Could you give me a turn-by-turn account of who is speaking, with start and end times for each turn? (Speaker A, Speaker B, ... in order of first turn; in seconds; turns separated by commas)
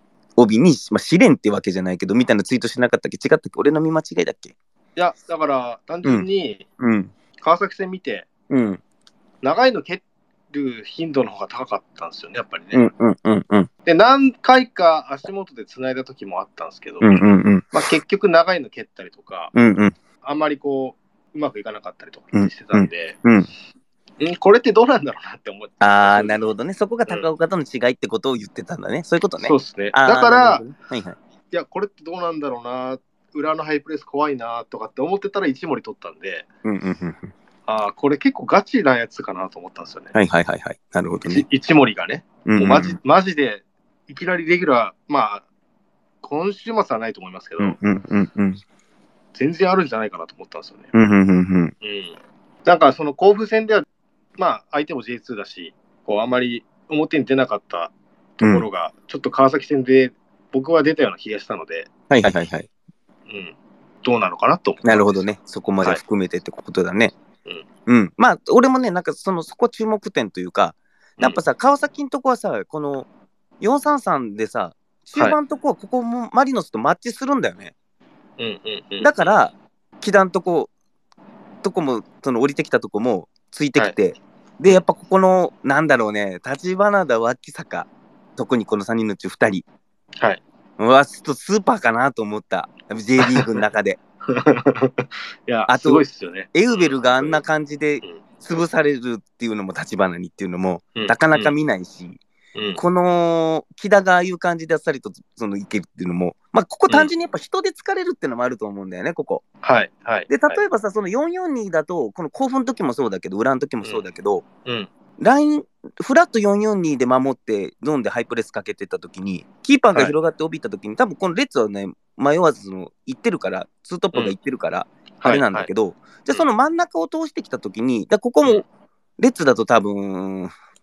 Speaker A: 0.4-4.5, Speaker B: 5.0-6.6, Speaker A: 6.8-7.1, Speaker B: 7.4-8.3, Speaker A: 8.5-8.8, Speaker B: 9.4-12.9, Speaker A: 12.7-13.7, Speaker B: 13.8-17.2, Speaker A: 17.0-17.7, Speaker B: 17.7-19.5, Speaker A: 19.5-19.9, Speaker B: 20.2-23.2, Speaker A: 22.3-23.5, Speaker B: 24.2-26.4, Speaker A: 25.8-31.2, Speaker B: 29.4-30.6, Speaker B: 31.5-36.5, Speaker A: 36.6-37.3, Speaker B: 37.7-40.1, Speaker A: 40.1-41.4, Speaker B: 41.2-45.4, Speaker A: 42.5-43.0, Speaker B: 46.2-47.8, Speaker A: 47.6-48.6, Speaker B: 49.3-50.9, Speaker A: 50.9-51.7, Speaker B: 51.8-53.8, Speaker B: 54.4-61.9, Speaker A: 58.4-58.7, Speaker A: 62.1-62.7, Speaker B: 63.3-65.2, Speaker A: 64.8-67.1, Speaker A: 67.8-73.1, Speaker A: 73.6-77.7, Speaker B: 78.4-79.1, Speaker A: 79.0-80.7, Speaker A: 81.6-89.7, Speaker A: 90.8-94.0, Speaker B: 94.3-97.4, Speaker A: 95.7-102.2, Speaker B: 100.9-101.5, Speaker A: 102.7-109.4, Speaker B: 109.6-110.6, Speaker A: 110.3-114.4, Speaker A: 115.2-128.7, Speaker B: 125.2-125.7, Speaker A: 129.2-130.5